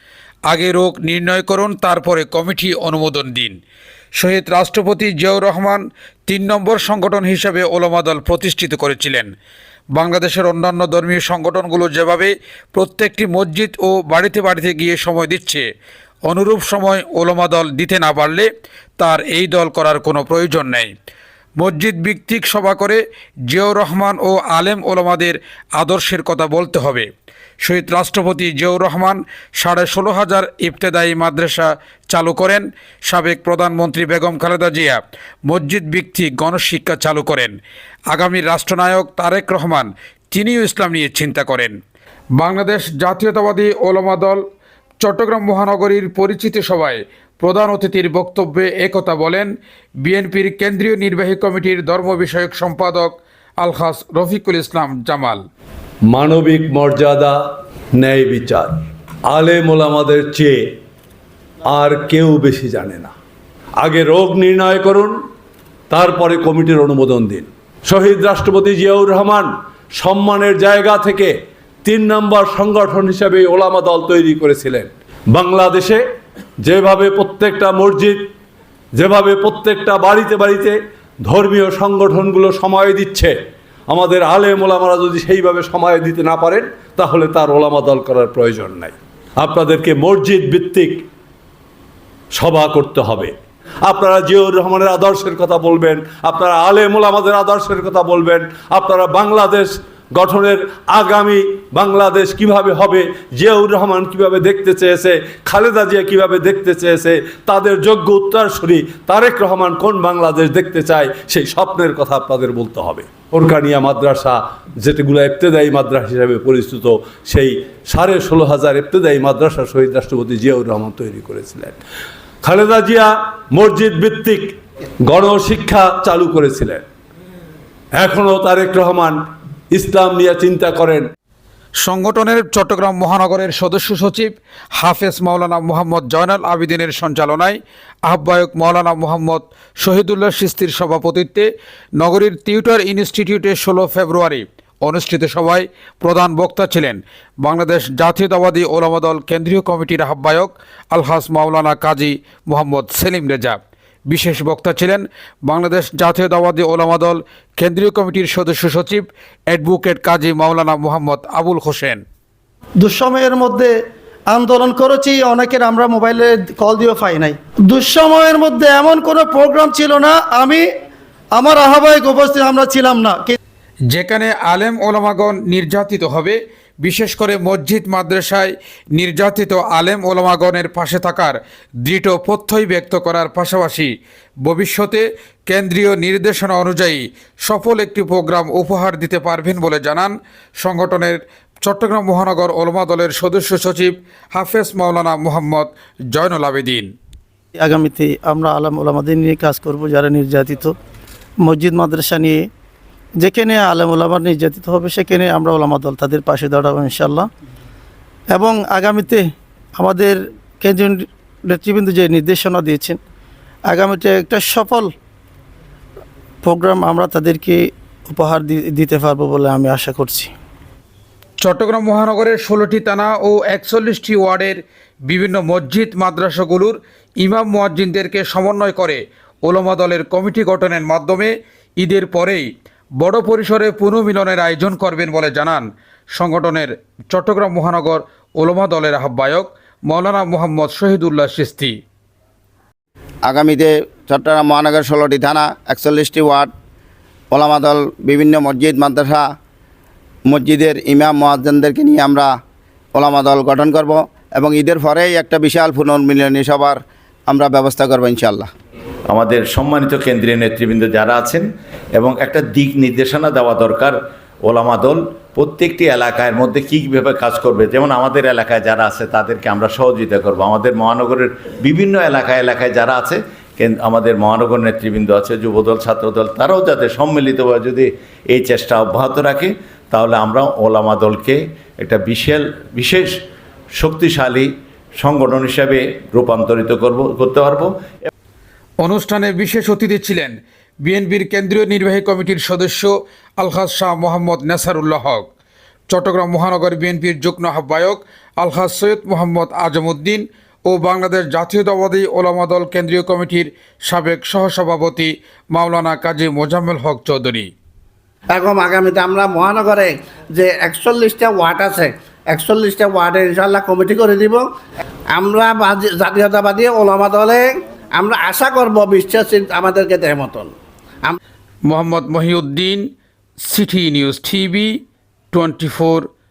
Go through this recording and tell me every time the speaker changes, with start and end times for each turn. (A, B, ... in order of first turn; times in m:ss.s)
0:00.5-0:03.6 A
0:04.2-0:09.3 A
0:10.0-0:15.6 A
0:16.3-0:20.9 A
0:21.6-0:27.1 A
0:27.6-0:37.5 A
0:38.1-0:41.7 A
0:42.4-0:44.4 A
0:45.0-0:49.5 A
0:50.0-0:55.4 A
0:56.1-0:57.4 B
0:58.0-1:00.6 B
1:01.7-1:03.1 B
1:03.8-1:05.1 B
1:05.9-1:16.0 B
1:16.6-1:18.3 B
1:19.0-1:23.3 B
1:23.9-1:31.1 B
1:32.3-2:01.8 B
2:02.4-2:06.8 B
2:08.0-2:09.2 B
2:09.7-2:11.1 B
2:11.8-2:21.5 A
2:22.0-2:42.0 A
2:42.8-2:43.7 C
2:44.3-2:50.6 C
2:51.3-2:53.4 C
2:53.9-3:03.9 A
3:04.4-3:16.9 A
3:17.6-3:20.7 C
3:21.4-3:22.4 C
3:23.2-3:27.3 C
3:28.3-3:33.0 C
3:33.7-3:34.9 C
3:36.4-3:40.3 C
3:41.4-3:52.4 A
3:53.0-4:01.8 A
4:03.2-4:06.5 D
4:07.3-4:09.2 D
4:10.3-4:12.3 D
4:13.0-4:18.5 D
4:19.1-4:43.1 E
4:43.8-4:47.7 E
4:48.8-4:55.3 A
4:55.9-5:07.5 A
5:08.3-5:14.5 F
5:15.1-5:21.2 F
5:21.7-5:22.9 A
5:23.4-5:24.8 A
5:25.3-5:26.1 A